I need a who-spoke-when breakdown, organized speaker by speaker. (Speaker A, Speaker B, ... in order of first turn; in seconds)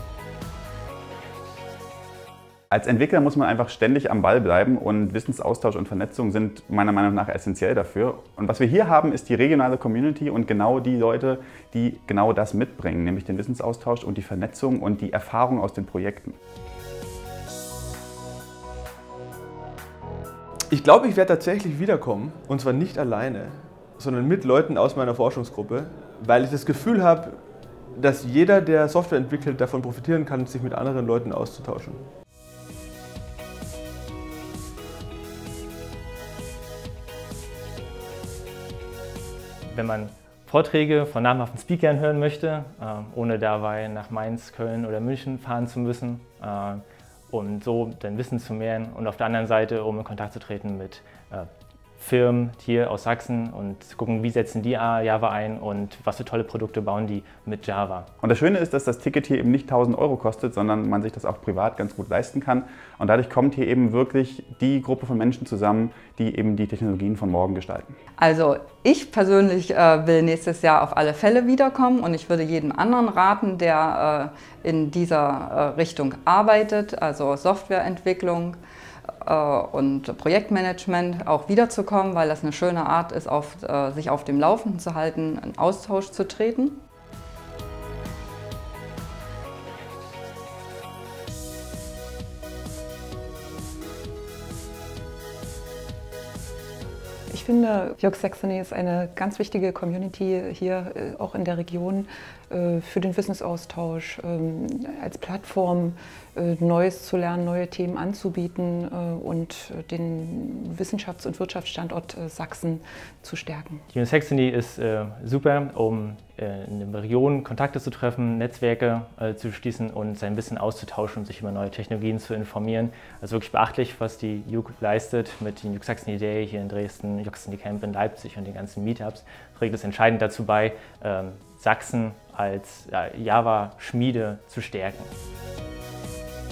Speaker A: 2.7-16.4, 58.2-68.0
Speaker B: 20.7-27.4, 27.9-32.0
Speaker C: 39.7-58.1, 113.9-135.1
Speaker D: 68.2-78.6, 79.2-86.8
Speaker E: 97.3-113.8